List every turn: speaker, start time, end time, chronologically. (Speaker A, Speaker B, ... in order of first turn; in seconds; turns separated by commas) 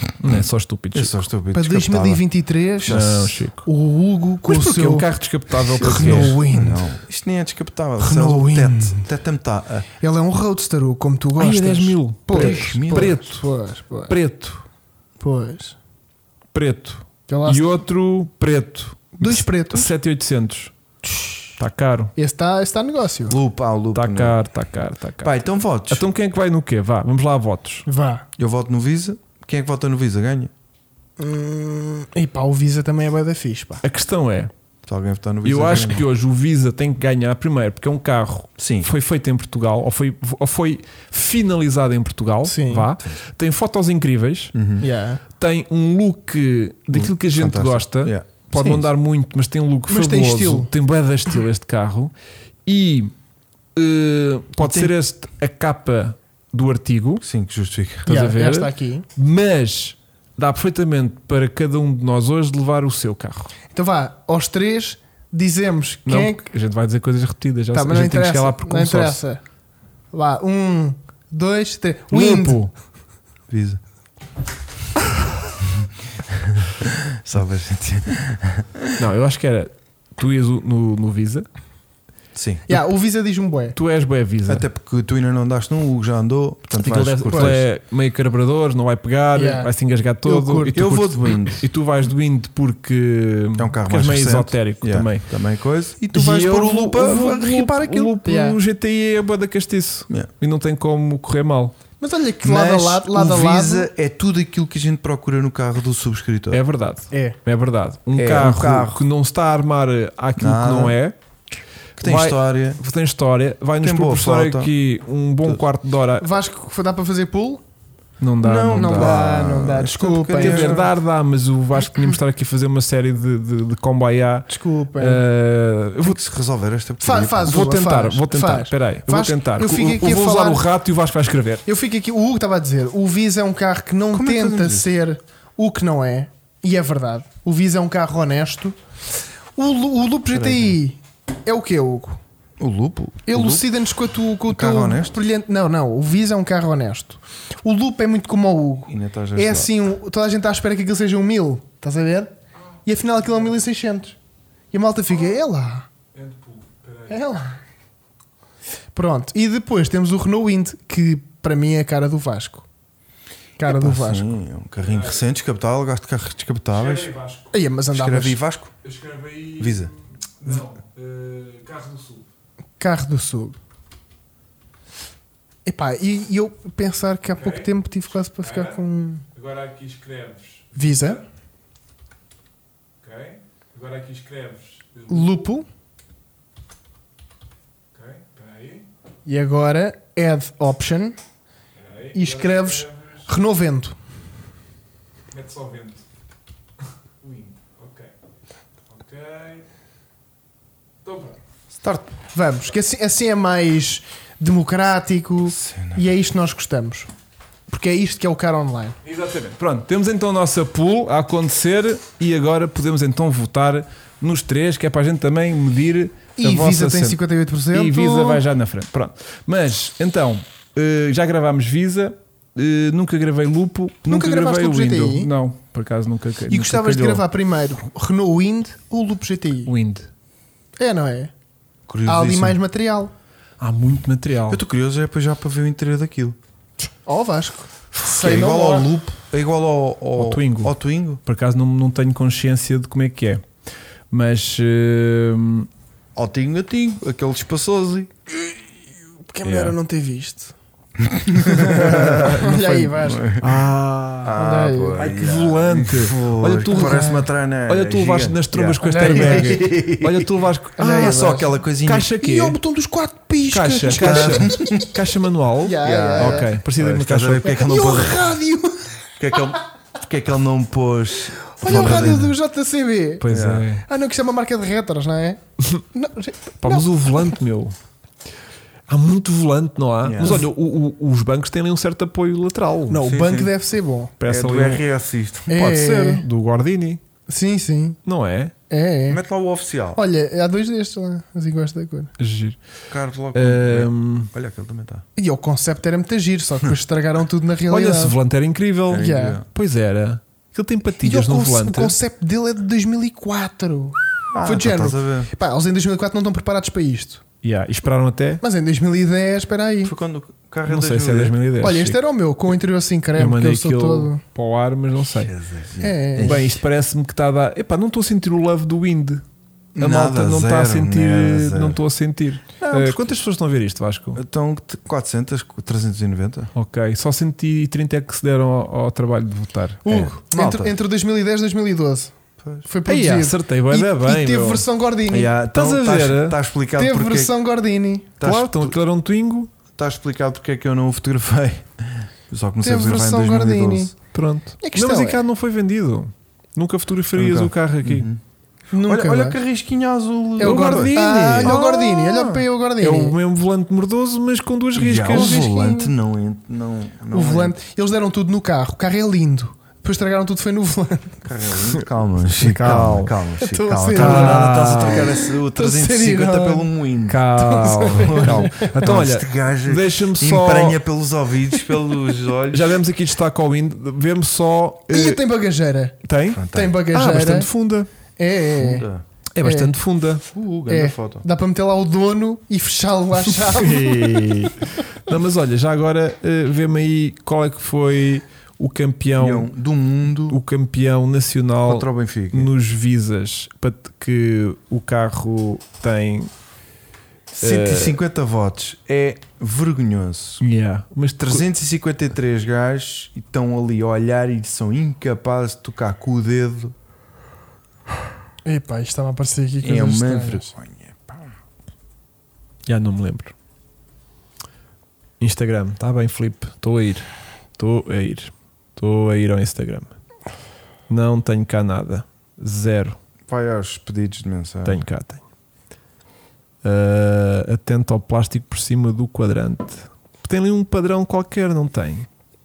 Speaker A: 0.2-1.2, Speaker B: 0.2-2.2, Speaker C: 1.5-3.0, Speaker B: 2.8-3.3, Speaker A: 2.9-3.7, Speaker C: 3.6-5.1, Speaker A: 4.5-6.4, Speaker C: 5.7-6.9, Speaker B: 5.8-9.9, Speaker C: 8.0-9.0, Speaker C: 10.0-14.2, Speaker A: 11.4-13.4, Speaker B: 12.3-13.2, Speaker A: 14.1-14.7, Speaker C: 15.2-15.8, Speaker A: 16.5-20.7, Speaker C: 17.3-17.8, Speaker C: 19.2-19.9, Speaker C: 21.0-21.5, Speaker A: 21.6-22.1, Speaker C: 22.2-23.4, Speaker B: 23.3-24.4, Speaker A: 23.9-25.4, Speaker B: 25.2-26.1, Speaker A: 25.9-27.9, Speaker C: 27.9-28.3, Speaker B: 28.4-30.5, Speaker C: 31.2-33.8, Speaker A: 33.8-34.5, Speaker B: 34.9-36.1, Speaker A: 35.5-44.5, Speaker B: 38.6-38.9, Speaker C: 42.5-42.9, Speaker B: 44.5-44.8, Speaker C: 44.8-45.2, Speaker A: 45.4-52.1, Speaker B: 46.9-48.9, Speaker C: 49.9-50.7, Speaker A: 52.7-53.1, Speaker A: 53.8-57.2, Speaker B: 54.6-54.9, Speaker B: 57.2-58.1, Speaker A: 58.0-63.5, Speaker C: 58.1-59.1, Speaker C: 63.7-66.5, Speaker A: 66.1-69.2, Speaker C: 67.7-69.4, Speaker C: 70.1-72.6, Speaker A: 72.1-72.7, Speaker B: 73.5-73.8, Speaker B: 75.8-79.0, Speaker A: 79.0-81.5, Speaker B: 82.3-82.7, Speaker C: 82.7-83.8, Speaker A: 83.8-84.7, Speaker B: 84.5-87.7, Speaker A: 86.8-95.3, Speaker C: 87.3-87.6, Speaker C: 89.3-89.7, Speaker C: 90.2-90.8, Speaker B: 90.8-91.7, Speaker B: 93.6-98.2, Speaker A: 96.1-101.7, Speaker C: 98.2-98.6, Speaker C: 102.0-103.9, Speaker B: 102.4-106.6, Speaker A: 106.5-111.2, Speaker C: 107.1-107.4, Speaker B: 108.2-109.0, Speaker B: 110.4-111.0, Speaker B: 112.0-112.8, Speaker A: 112.0-116.3, Speaker B: 113.8-114.7, Speaker C: 116.2-117.6, Speaker A: 118.2-119.2, Speaker B: 118.4-120.9, Speaker C: 118.7-120.9, Speaker A: 120.4-126.2, Speaker C: 124.5-125.2, Speaker B: 126.0-127.7, Speaker C: 127.0-130.6, Speaker A: 127.5-131.6, Speaker C: 131.7-138.8, Speaker B: 134.1-134.9, Speaker C: 139.6-142.2, Speaker B: 140.4-140.7, Speaker B: 142.6-143.7, Speaker C: 143.3-152.3, Speaker B: 144.5-145.2, Speaker B: 148.9-149.7, Speaker C: 152.8-154.2, Speaker C: 154.7-155.9, Speaker A: 156.1-157.2, Speaker C: 157.1-157.6, Speaker C: 158.9-162.7, Speaker C: 163.6-164.3, Speaker B: 163.7-167.1, Speaker A: 164.8-165.2, Speaker A: 166.7-167.5, Speaker C: 167.5-168.4, Speaker B: 167.9-168.7, Speaker A: 168.8-172.2, Speaker B: 169.6-169.9, Speaker C: 172.8-173.6, Speaker C: 175.7-179.2, Speaker A: 177.4-177.7, Speaker A: 178.4-178.8, Speaker A: 179.3-181.2, Speaker C: 180.8-181.2, Speaker A: 183.0-185.4, Speaker C: 185.1-185.7, Speaker A: 187.9-188.9, Speaker C: 189.3-191.2, Speaker A: 191.8-193.3, Speaker C: 192.1-194.0, Speaker A: 195.3-196.0, Speaker A: 197.2-198.1, Speaker A: 198.9-199.7, Speaker A: 201.0-201.4, Speaker B: 201.8-202.1, Speaker C: 202.3-207.1, Speaker B: 205.5-206.0, Speaker C: 207.7-209.0, Speaker A: 209.0-217.2, Speaker C: 216.4-218.4, Speaker A: 217.7-227.2, Speaker C: 224.1-225.3, Speaker C: 226.5-229.7, Speaker A: 229.7-230.1, Speaker C: 230.8-231.3, Speaker B: 231.9-232.6, Speaker C: 232.1-233.1, Speaker A: 233.6-234.6, Speaker B: 234.5-236.4, Speaker C: 237.1-238.9, Speaker B: 238.0-241.2, Speaker A: 240.2-243.4, Speaker A: 244.1-245.7, Speaker B: 246.2-248.1, Speaker C: 249.3-250.5, Speaker A: 249.4-249.8, Speaker B: 251.0-253.7, Speaker C: 251.5-253.3, Speaker A: 251.8-254.4, Speaker B: 254.2-262.1, Speaker C: 254.4-255.1, Speaker A: 255.0-262.6, Speaker C: 256.7-257.2, Speaker C: 258.8-259.7, Speaker C: 260.8-261.6, Speaker C: 262.2-264.9, Speaker A: 263.5-267.6, Speaker B: 263.9-264.9, Speaker C: 265.6-266.5, Speaker B: 265.8-268.3, Speaker C: 267.5-269.4, Speaker B: 269.2-272.3, Speaker C: 271.5-273.2, Speaker A: 271.7-272.3, Speaker A: 273.2-273.8, Speaker B: 273.3-273.7, Speaker C: 273.9-275.4, Speaker C: 275.9-277.3, Speaker A: 276.6-277.8, Speaker A: 278.9-283.0, Speaker B: 280.0-280.4, Speaker C: 282.9-284.1, Speaker B: 283.0-283.5, Speaker A: 284.2-284.8, Speaker B: 284.2-285.5, Speaker C: 285.5-286.2, Speaker A: 285.5-287.0, Speaker C: 287.3-288.0, Speaker A: 288.1-288.5, Speaker C: 288.7-289.2, Speaker B: 289.1-290.0, Speaker C: 289.9-292.1, Speaker A: 292.2-292.6, Speaker B: 292.9-295.0, Speaker A: 293.3-294.3, Speaker C: 295.2-298.2, Speaker A: 297.7-302.0, Speaker B: 298.9-299.5, Speaker C: 299.0-299.4, Speaker C: 301.0-307.2, Speaker B: 304.3-305.3, Speaker A: 307.4-308.4, Speaker C: 308.4-309.9, Speaker B: 309.8-311.4, Speaker A: 310.7-312.0, Speaker C: 311.6-314.2, Speaker A: 313.2-315.3, Speaker B: 315.2-316.6, Speaker C: 315.8-316.4, Speaker A: 316.2-319.2, Speaker B: 319.8-321.8, Speaker A: 319.8-324.2, Speaker B: 322.6-323.2, Speaker B: 324.1-326.5, Speaker A: 326.6-329.8, Speaker C: 329.9-332.1, Speaker B: 329.9-330.7, Speaker B: 332.4-332.7, Speaker C: 332.6-335.3, Speaker A: 332.9-334.7, Speaker B: 335.1-337.3, Speaker A: 335.5-336.4, Speaker C: 336.8-338.1, Speaker B: 338.2-338.8, Speaker A: 338.2-339.5, Speaker B: 339.8-343.9, Speaker C: 342.6-343.9, Speaker A: 344.1-348.1, Speaker C: 344.6-345.2, Speaker B: 347.1-348.2, Speaker C: 348.7-349.4, Speaker B: 348.8-351.7, Speaker C: 350.4-353.2, Speaker A: 350.4-355.5, Speaker B: 354.8-357.6, Speaker C: 355.1-355.9, Speaker C: 357.1-361.2, Speaker B: 361.2-367.3, Speaker A: 362.4-363.1, Speaker C: 363.4-366.7, Speaker A: 363.9-365.1, Speaker A: 367.1-370.8, Speaker C: 367.4-368.7, Speaker B: 367.9-372.8, Speaker A: 372.5-375.2, Speaker C: 374.9-376.0, Speaker A: 376.0-377.9, Speaker B: 376.3-376.8, Speaker C: 376.5-377.5, Speaker C: 378.2-378.9, Speaker B: 378.6-379.0, Speaker A: 379.4-380.2, Speaker C: 379.4-379.7, Speaker B: 380.3-381.2, Speaker C: 380.7-384.5, Speaker A: 383.4-389.5, Speaker B: 389.2-390.4, Speaker A: 390.3-396.3, Speaker B: 391.6-392.5, Speaker B: 397.4-400.4, Speaker A: 397.4-398.0, Speaker A: 400.4-401.4, Speaker B: 401.2-406.7, Speaker C: 408.4-410.5, Speaker B: 409.6-411.1, Speaker A: 412.7-413.3, Speaker A: 415.2-419.9, Speaker A: 420.9-423.0, Speaker B: 423.3-424.8, Speaker A: 424.6-425.2, Speaker A: 426.6-432.1